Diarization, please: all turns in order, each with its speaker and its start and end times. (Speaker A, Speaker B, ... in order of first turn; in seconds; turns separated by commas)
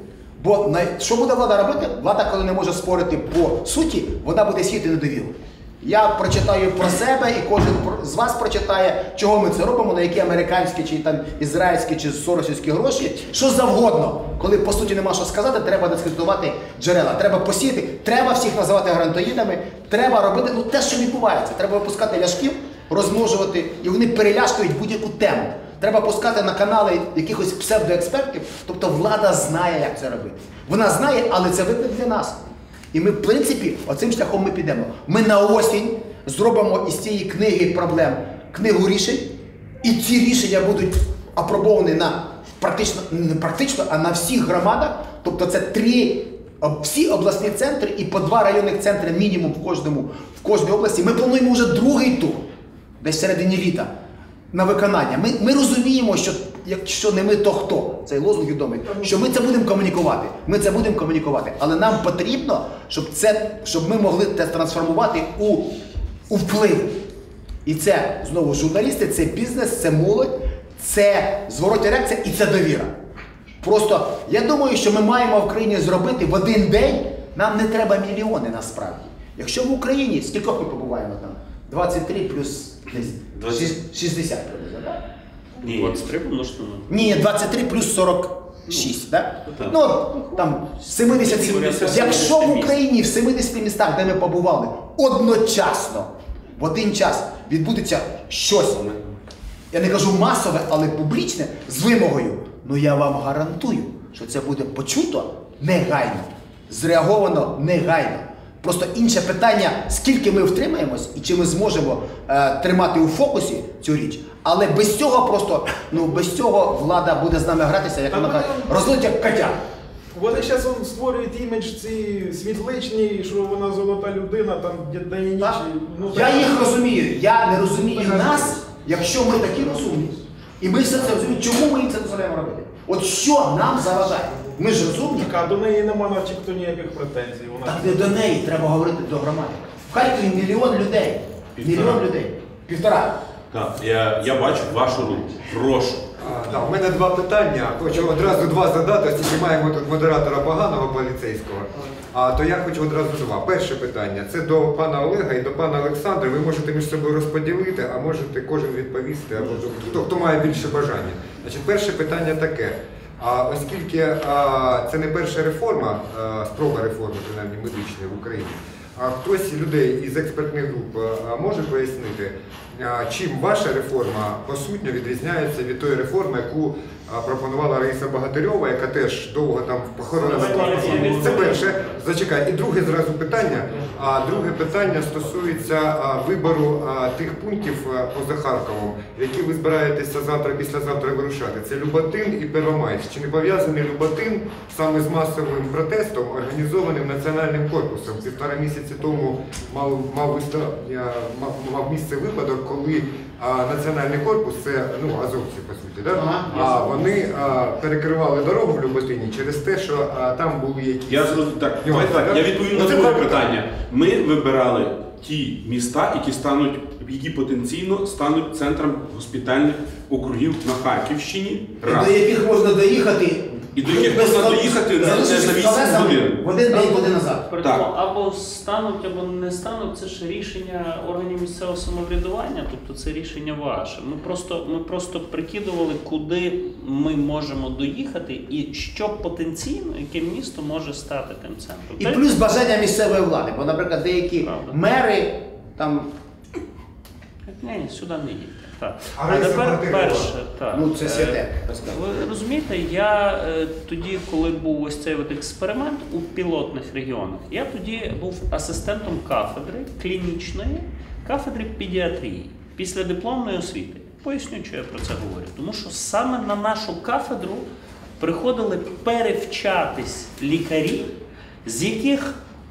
Speaker A: 0.4-32.4, Speaker A: 32.9-52.5, Speaker A: 53.0-53.9, Speaker A: 54.5-65.8, Speaker B: 58.8-59.3, Speaker A: 66.3-67.1, Speaker A: 67.7-73.0, Speaker A: 73.6-85.0, Speaker C: 83.3-83.8, Speaker D: 85.6-87.2, Speaker C: 85.7-85.9, Speaker A: 86.9-99.0, Speaker C: 89.5-89.8, Speaker C: 91.1-92.7, Speaker D: 91.4-92.6, Speaker A: 99.7-119.6, Speaker B: 118.1-118.7, Speaker B: 120.1-126.8, Speaker A: 125.4-135.3, Speaker B: 127.7-128.7, Speaker B: 134.4-138.3, Speaker A: 137.6-143.2, Speaker C: 141.6-142.1, Speaker C: 143.5-146.1, Speaker E: 146.2-213.5, Speaker D: 180.1-181.8, Speaker B: 180.3-181.5, Speaker B: 183.8-184.4, Speaker A: 206.1-206.9, Speaker C: 211.1-222.2, Speaker A: 221.8-227.5, Speaker C: 223.8-226.4, Speaker D: 226.7-242.4, Speaker C: 227.6-227.9, Speaker A: 242.0-246.1, Speaker D: 244.4-244.8, Speaker D: 247.4-267.7, Speaker E: 249.2-250.3, Speaker A: 250.7-251.9, Speaker D: 268.2-271.1, Speaker D: 271.6-272.4